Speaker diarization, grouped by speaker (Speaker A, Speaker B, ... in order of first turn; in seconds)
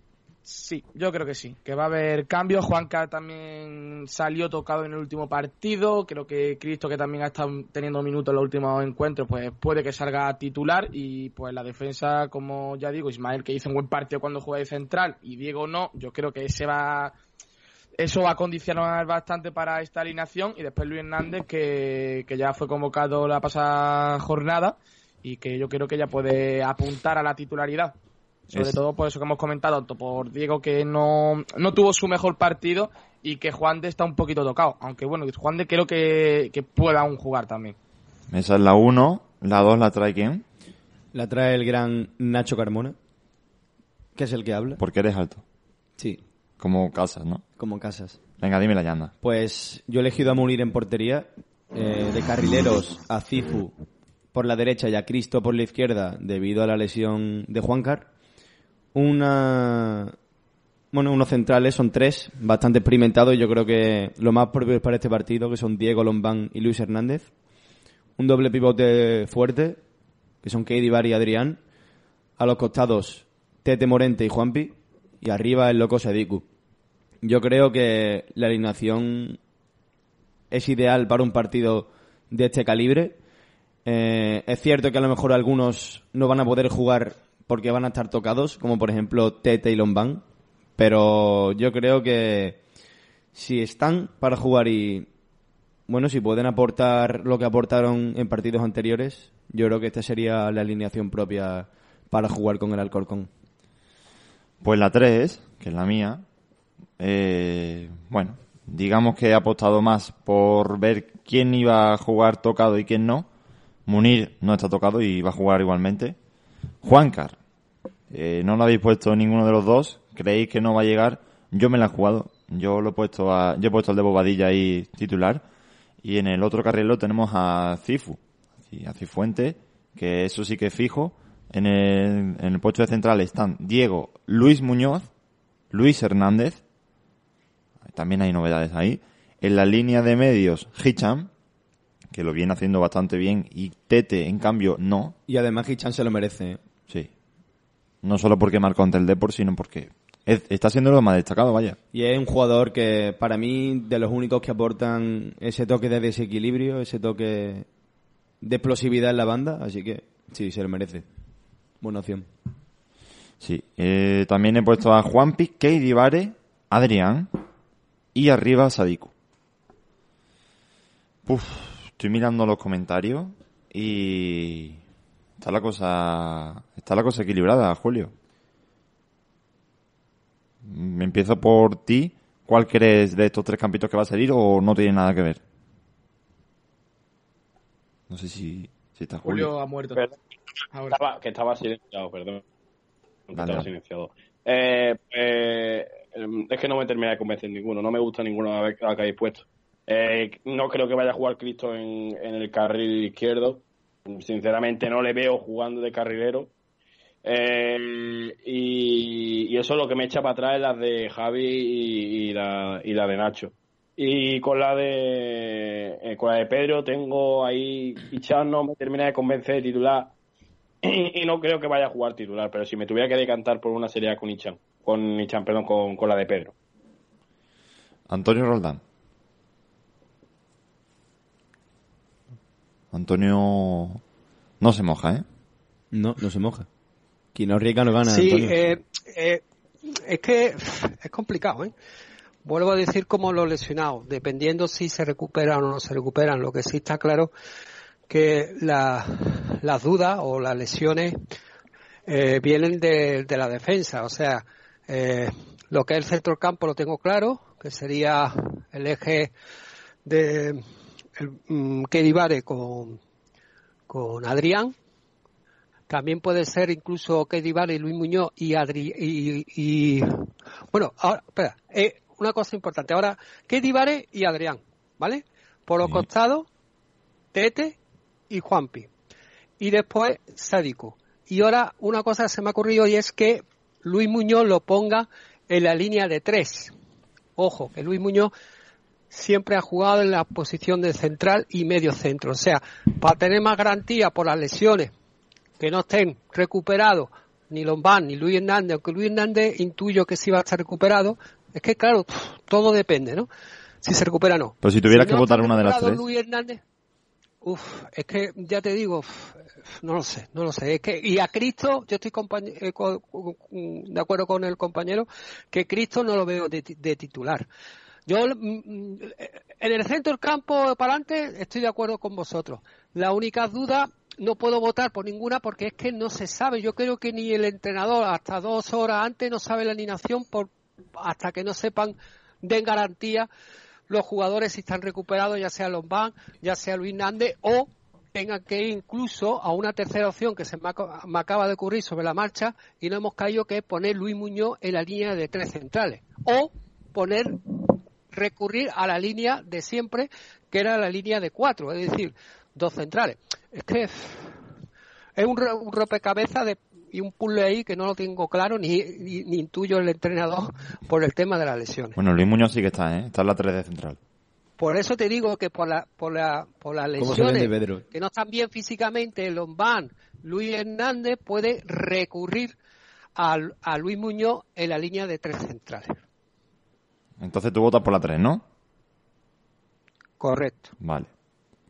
Speaker A: 0.4-17.1, 18.0-27.9, 28.5-37.8, 189.2-190.0, 190.7-191.0
Speaker B: 28.5-28.8, 38.3-40.4, 44.8-45.4, 46.6-47.4, 48.4-49.1, 104.6-106.2, 107.0-113.3, 113.8-116.2, 116.8-117.3, 118.1-125.4, 126.0-135.1, 135.7-136.6, 137.9-141.3, 142.1-145.1, 148.0-151.8, 163.4-167.3, 168.1-169.1, 171.2-174.8, 175.4-178.1, 180.7-185.4, 188.1-189.5, 193.3-193.7, 228.1-228.8, 232.9-234.0, 234.6-235.2, 304.6-306.0, 361.9-364.0, 377.2-378.4, 380.8-381.1
Speaker C: 41.1-43.0, 44.1-44.8, 47.6-48.2, 49.2-53.7, 54.3-58.1, 58.9-60.1, 60.9-67.3, 68.2-69.8, 70.4-71.6, 72.4-76.5, 77.2-79.4, 80.5-83.2, 83.8-90.2, 90.8-92.6, 93.3-95.1, 95.9-103.3, 145.3-146.6, 151.9-157.7, 158.4-161.1, 161.8-162.3, 235.9-236.7, 237.3-238.6, 367.0-367.8
Speaker D: 190.9-192.4, 193.3-206.5, 207.2-220.1, 220.8-226.5
Speaker E: 238.1-241.7, 242.4-247.3, 248.1-251.2, 252.1-259.3, 260.0-260.6, 261.1-263.0, 263.9-264.7, 265.9-276.5, 277.3-277.8, 278.3-278.9, 279.6-286.7, 287.4-288.3, 289.1-294.9, 295.6-303.3, 303.8-306.6, 307.4-317.5, 318.1-333.3, 333.9-347.4, 348.1-354.4, 355.2-361.9, 364.6-372.6, 373.2-376.0, 380.2-380.7